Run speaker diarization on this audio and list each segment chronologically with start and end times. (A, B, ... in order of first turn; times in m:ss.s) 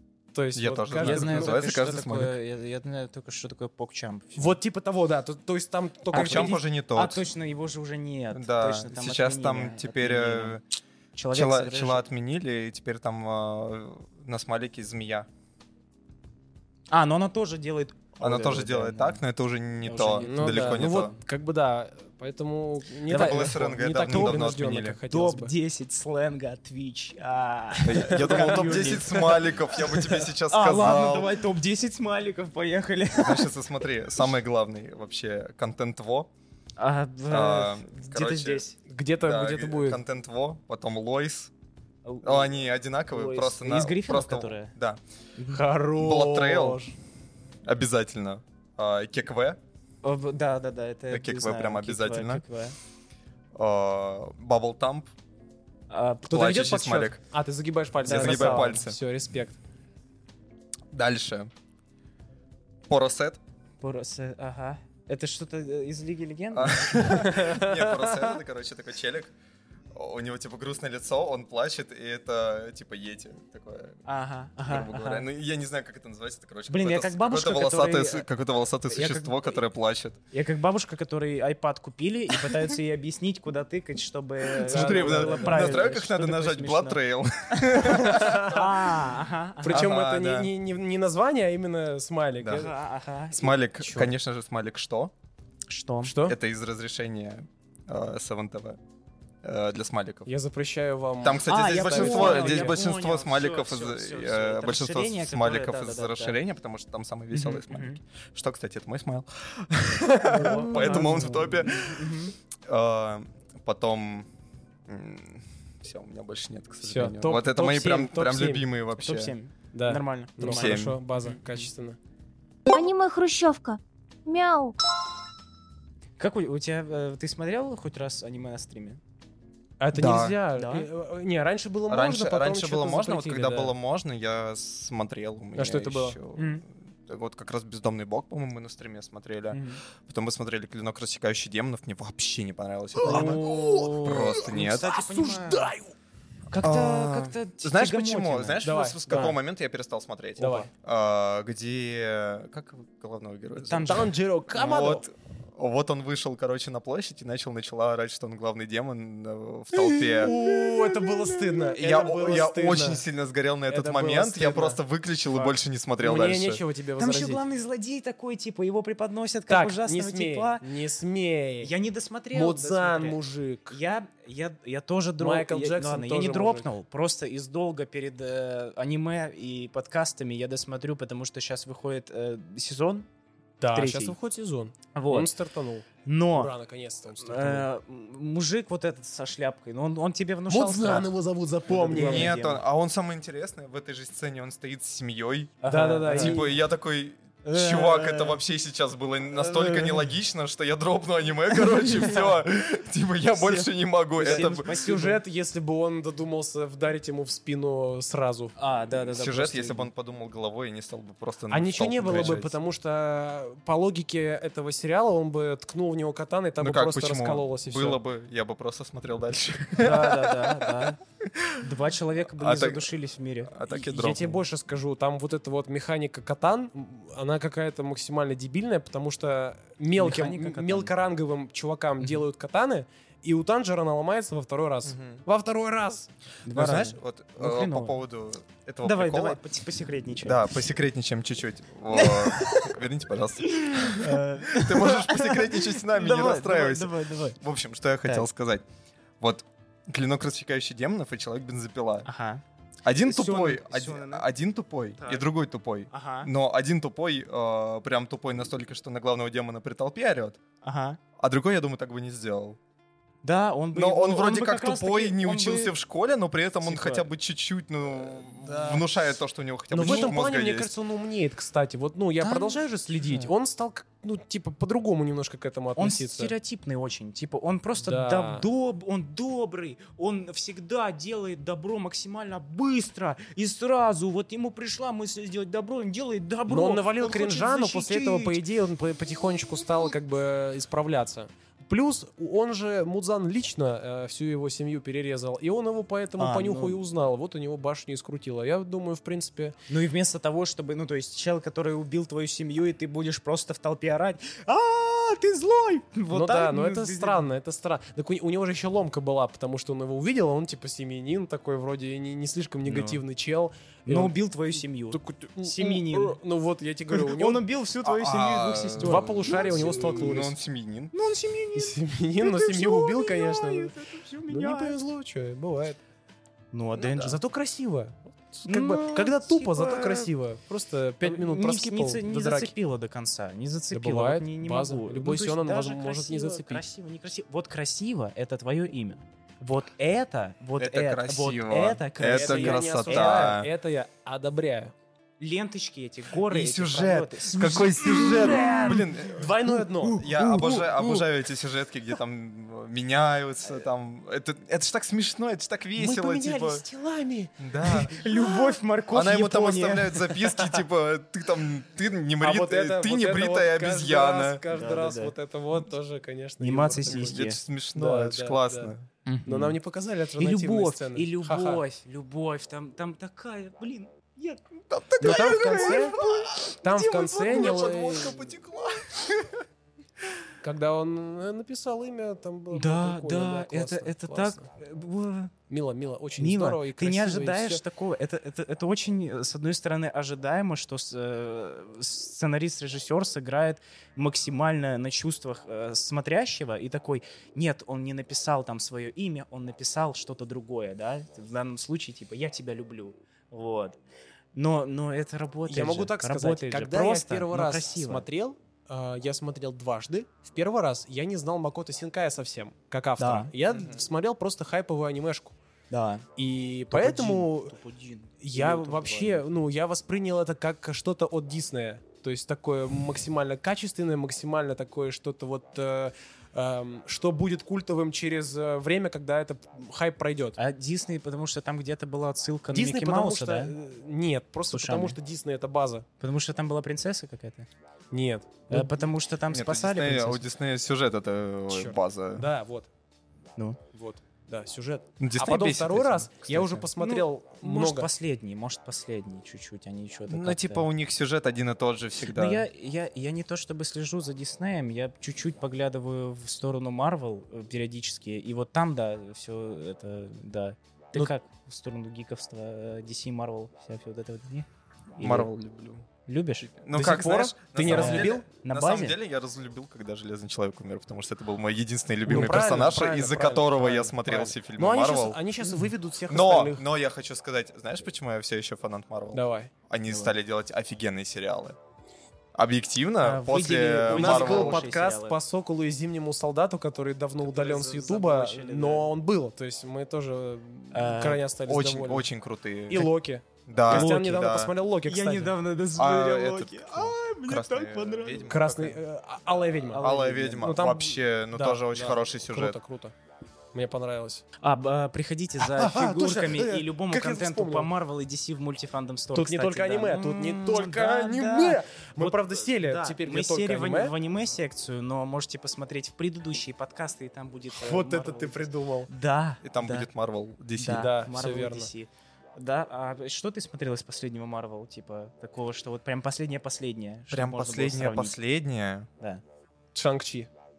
0:00.3-0:02.2 A
0:00.5-0:02.3 B
0:00.9-0:04.6 C
0:04.4-0:06.6 A
0:06.1-0:07.2 B
0:06.1-0:10.6 C
0:08.3-0:10.6 B
0:11.1-0:12.0 C
0:11.3-0:15.3 B
0:16.9-0:19.2 C
0:18.2-0:21.1 B
0:19.8-0:21.2 C
0:20.2-0:25.5 A
0:23.1-0:25.0 B
0:23.1-0:24.5 C
0:25.1-0:33.5 C
0:27.8-0:31.3 B
0:28.0-0:29.0 A
0:33.2-0:36.3 B
0:36.8-0:38.8 C
0:37.3-0:38.6 B
0:38.8-0:40.0 A
0:39.2-0:41.5 B
0:42.0-0:42.6 C
0:42.2-0:45.0 B
0:43.1-0:44.7 C
0:45.4-0:45.6 C
0:45.5-0:46.9 A
0:46.0-0:46.8 B
0:47.6-0:49.6 B
0:50.0-0:52.8 C
0:51.1-0:52.4 B
0:53.5-0:55.1 B
0:55.9-0:56.5 C
0:56.3-0:59.6 A
0:56.3-0:57.2 B
0:58.0-0:59.0 B
0:58.0-0:58.8 C
1:00.9-1:01.5 B
1:02.9-1:03.4 B
1:03.8-1:07.3 C
1:06.5-1:09.3 B
1:07.0-1:08.0 A
1:09.9-1:14.0 B
1:14.0-1:15.2 C
1:14.6-1:20.2 B
1:16.7-1:18.3 C
1:18.9-1:19.6 C
1:20.3-1:29.8 C
1:24.6-1:25.8 A
1:24.6-1:28.6 B
1:28.0-1:28.7 A
1:29.6-1:32.7 A
1:29.7-1:30.5 B
1:32.4-1:32.7 B
1:32.5-1:34.1 C
1:33.3-1:35.1 B
1:35.7-1:36.2 C
1:36.0-1:36.4 A
1:36.2-1:38.8 B
1:39.4-1:40.3 B
1:40.2-1:42.8 A
1:41.2-1:52.1 B
1:41.5-1:46.4 C
1:47.3-1:48.0 C
1:50.0-1:51.6 A
1:50.3-1:52.3 C
1:52.7-1:54.3 B
1:54.9-1:59.3 B
1:56.8-1:58.7 A
1:59.0-2:01.6 C
1:59.7-2:02.0 A
2:00.4-2:01.0 B
2:02.7-2:04.8 D
2:06.2-2:09.0 C
2:09.8-2:13.7 A
2:09.9-2:10.4 B
2:10.5-2:10.9 C
2:11.9-2:24.9 B
2:15.6-2:16.2 A
2:16.4-2:16.6 C
2:19.5-2:19.8 C
2:23.0-2:25.9 A
2:23.0-2:25.7 C
2:26.5-2:29.4 C
2:26.6-2:40.4 B
2:28.6-2:29.4 A
2:30.4-2:30.7 A
2:30.4-2:30.7 C
2:33.6-2:34.1 C
2:33.8-2:35.0 A
2:39.7-2:43.0 A
2:40.4-2:41.7 C
2:41.8-2:46.6 B
2:43.7-2:44.8 A
2:46.0-2:47.4 A
2:47.0-2:50.6 C
2:49.5-2:51.7 A
2:51.6-3:03.1 C
2:52.3-2:53.8 A
2:55.2-2:56.7 A
3:03.6-3:07.7 A
3:03.7-3:04.2 C
3:04.9-3:05.3 C
3:06.0-3:06.5 C
3:07.1-3:11.1 C
3:10.5-3:12.3 A
3:11.7-3:12.6 C
3:11.9-3:24.7 B
3:15.6-3:16.5 C
3:15.7-3:16.5 A
3:17.4-3:18.4 C
3:19.4-3:20.1 C
3:21.6-3:22.3 C
3:23.4-3:25.2 C
3:24.2-3:28.5 A
3:28.6-3:29.9 C
3:29.0-3:32.5 B
3:31.5-3:38.0 A
3:36.6-3:41.6 B
3:39.8-3:41.0 C
3:41.6-3:43.6 C
3:42.4-3:42.9 B
3:43.5-3:44.4 B
3:43.7-3:56.1 A
3:49.9-3:50.9 C
3:54.8-3:55.2 B
3:56.4-3:57.9 C
3:56.5-3:59.4 B
3:58.8-4:00.6 C
4:00.2-4:08.6 B
4:01.9-4:02.8 C
4:03.4-4:07.4 C
4:09.2-4:12.1 B
4:12.0-4:12.4 C
4:12.8-4:20.4 B
4:13.0-4:14.3 C
4:15.0-4:15.2 C
4:15.9-4:16.3 C
4:20.6-4:21.0 C
4:21.2-4:22.6 B
4:23.2-4:25.7 C
4:23.7-4:30.7 B
4:26.6-4:27.0 C
4:28.5-4:28.8 A
4:29.7-4:36.3 A
4:29.8-4:30.1 C
4:32.2-4:33.3 C
4:35.8-4:48.4 C
4:37.8-4:38.4 A
4:46.5-4:59.5 A
4:56.2-4:56.8 C
4:59.7-5:07.2 C
5:06.1-5:14.1 A
5:12.6-5:13.0 C
5:13.8-5:16.2 C
5:14.9-5:17.4 A
5:16.9-5:19.9 C
5:17.8-5:20.9 B
5:18.8-5:20.4 A
5:20.9-5:24.8 C
5:21.5-5:23.7 A
5:24.3-5:25.8 A
5:26.5-5:27.2 C
5:26.8-5:27.2 B
5:27.0-5:32.5 A
5:28.5-5:30.1 C
5:31.0-5:43.4 C
5:33.7-5:36.6 A
5:40.6-5:43.5 B
5:42.1-5:44.7 A
5:45.2-5:48.8 C
5:46.2-5:49.3 B
5:47.3-5:50.0 A
5:49.5-5:51.0 C
5:49.9-5:56.6 B
5:55.8-5:58.6 A
5:57.4-5:58.0 B
5:57.9-6:00.2 C
5:58.9-6:04.4 B
6:02.2-6:07.2 A
6:04.5-6:05.1 C
6:06.4-6:07.4 C
6:06.9-6:08.8 B
6:07.7-6:08.7 A
6:09.0-6:09.6 C
6:09.2-6:11.6 A
6:10.2-6:18.0 C
6:14.7-6:19.4 B
6:15.0-6:16.0 A
6:16.6-6:18.3 A
6:20.4-6:24.4 A
6:22.5-6:25.3 C
6:25.5-6:27.6 A
6:26.2-6:43.8 C
6:44.3-6:48.0 C
6:45.5-6:55.4 A
6:53.0-6:53.3 C
6:55.7-6:56.0 C
6:56.2-6:57.6 A
6:56.7-6:59.2 C
6:58.2-7:10.4 A
7:10.4-7:13.5 C
7:12.5-7:15.8 A
7:14.5-7:15.0 C
7:16.0-7:17.5 C
7:17.9-7:18.7 A
7:18.5-7:20.2 C
7:19.3-7:22.3 B
7:21.5-7:22.7 A
7:23.7-7:27.9 A
7:25.0-7:26.7 B
7:26.8-7:30.7 C
7:30.1-7:32.4 B
7:32.1-7:44.5 C
7:45.0-7:45.3 C
7:45.0-7:45.9 B
7:46.0-7:46.5 C
7:46.6-7:55.2 B
7:46.7-7:48.2 A
7:47.6-7:49.0 C
7:52.0-7:56.6 A
7:56.1-8:01.6 B
7:59.1-7:59.5 A
8:02.3-8:04.6 B
8:03.0-8:05.2 C
8:03.9-8:12.1 A
8:07.2-8:08.9 C
8:10.7-8:11.2 C
8:11.5-8:12.9 B
8:12.7-8:15.4 A
8:13.4-8:14.5 B
8:14.9-8:18.6 C
8:15.8-8:18.8 B
8:18.3-8:22.9 A
8:19.5-8:20.6 C
8:19.8-8:22.6 B
8:23.5-8:24.2 A
8:24.4-8:39.9 C
8:25.4-8:27.7 A
8:29.1-8:33.9 A
8:37.5-8:38.9 A
8:39.4-8:40.9 B
8:40.6-8:48.2 C
8:40.7-8:41.7 A
8:47.1-8:48.9 B
8:49.7-8:50.3 A